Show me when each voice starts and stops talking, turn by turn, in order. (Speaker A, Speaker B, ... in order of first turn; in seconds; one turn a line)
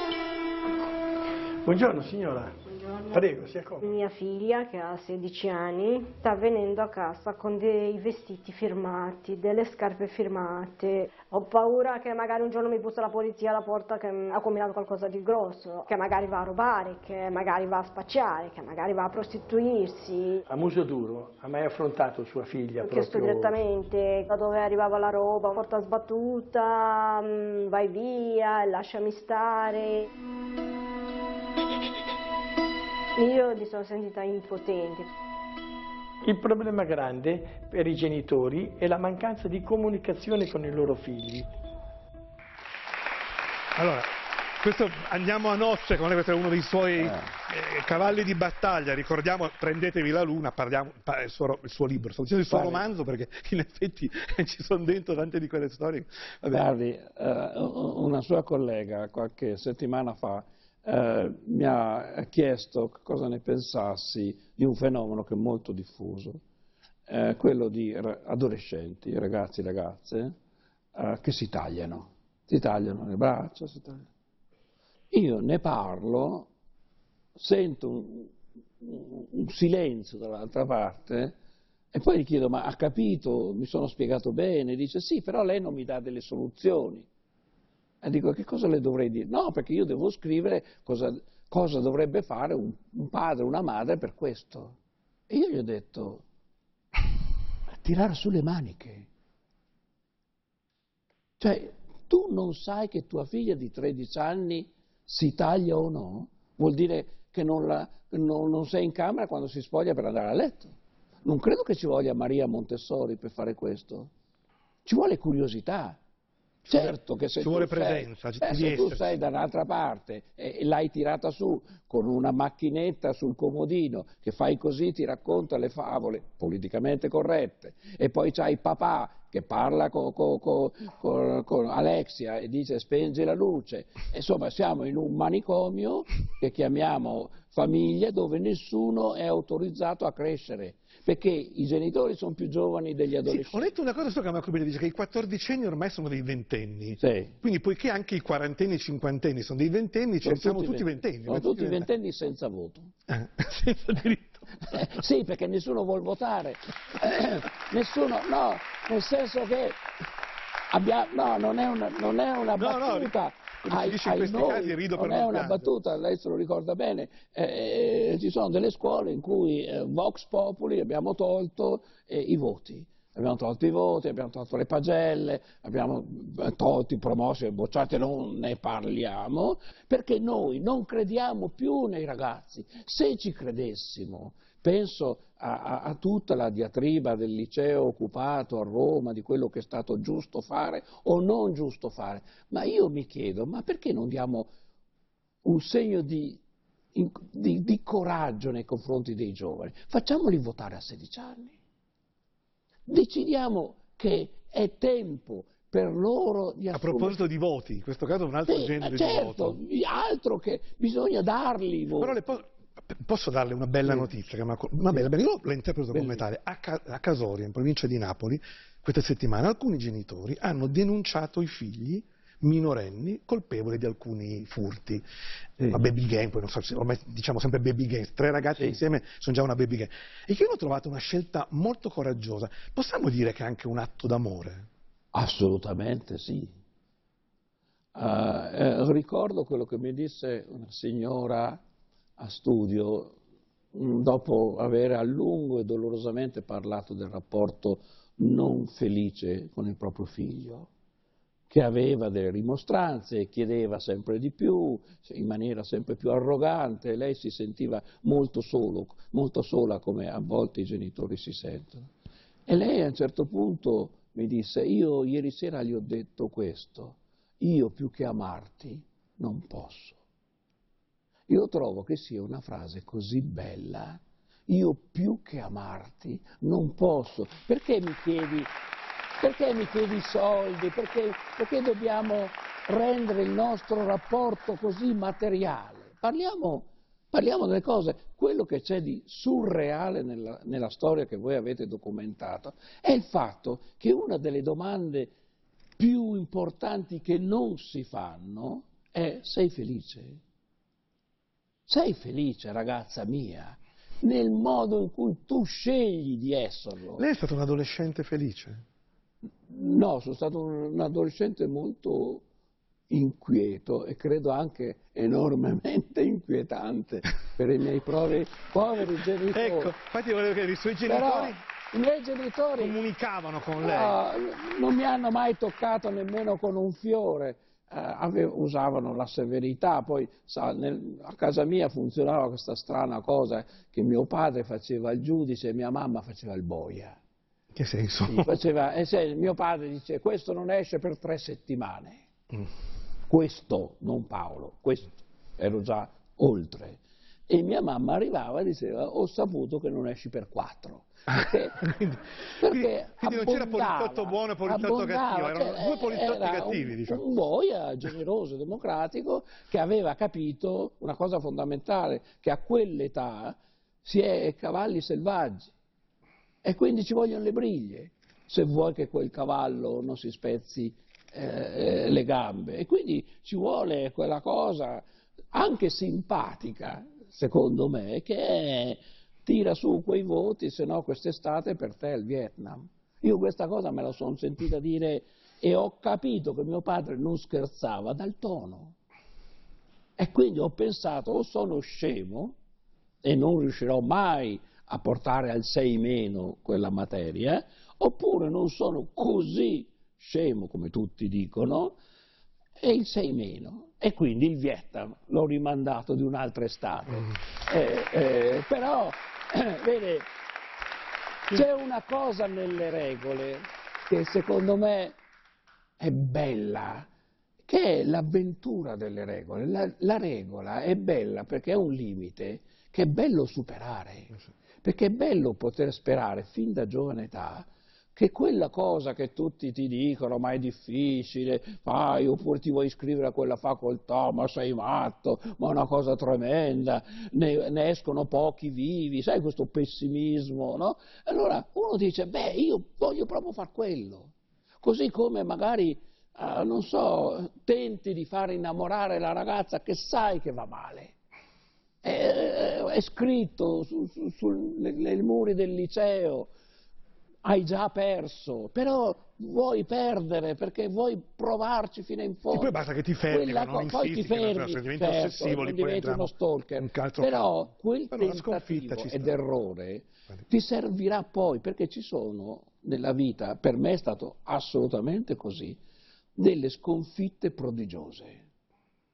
Speaker A: 1.6-3.8
Speaker B: 2.7-3.2
Speaker B: 3.8-20.4
Speaker A: 20.5-23.5
Speaker B: 22.8-30.1
Speaker B: 33.2-35.1
Speaker A: 36.2-41.5
Speaker C: 43.7-56.6
Speaker D: 47.0-47.3
Speaker D: 52.5-52.8
Speaker D: 56.5-66.4
Speaker D: 67.1-70.3
Speaker D: 70.9-74.0
Speaker D: 75.1-76.5
Speaker D: 77.3-81.3
Speaker D: 81.9-87.1
Speaker D: 88.0-94.8
Speaker D: 95.3-96.2
Speaker D: 97.7-99.1
Speaker D: 101.4-114.1
Speaker D: 114.8-116.0
Speaker C: 116.7-119.2
Speaker D: 116.7-143.7
Speaker C: 143.2-151.9
Speaker D: 147.0-147.3
Speaker D: 150.2-152.9
Speaker C: 153.1-154.8
Speaker D: 154.6-159.8
Speaker D: 160.7-194.5
Speaker C: 162.6-165.7
Speaker D: 195.4-196.4
Speaker D: 196.9-201.6
Speaker D: 202.9-207.2
Speaker C: 206.7-209.6
Speaker D: 208.5-212.2
Speaker C: 212.0-225.0
Speaker D: 215.9-216.2
Speaker C: 225.7-234.7
Speaker D: 235.1-236.5
Speaker D: 237.9-241.6
Speaker D: 242.2-243.2
Speaker D: 243.7-250.7
Speaker D: 251.5-261.9
Speaker D: 262.5-270.0
Speaker D: 271.3-278.5
Speaker D: 279.2-295.1
Speaker D: 295.8-300.2
Speaker D: 301.7-307.0
Speaker C: 307.0-308.6
Speaker D: 309.5-312.2
Speaker D: 312.9-319.7
Speaker C: 319.3-321.4
Speaker D: 320.8-322.8
Speaker C: 322.6-324.0
Speaker D: 323.6-337.0
Speaker C: 337.5-338.3
Speaker D: 338.0-342.1
Speaker D: 343.1-351.6
Speaker C: 351.1-357.0
Speaker D: 352.4-365.5
Speaker D: 366.4-388.8
Speaker D: 390.0-392.4
Speaker D: 393.0-401.8
Speaker D: 402.6-410.1
Speaker D: 411.3-415.0
Speaker D: 415.8-416.9
Speaker D: 417.5-450.9
Speaker D: 451.8-456.3
Speaker D: 457.2-462.6
Speaker C: 462.3-469.1
Speaker D: 463.1-475.6
Speaker D: 476.2-478.2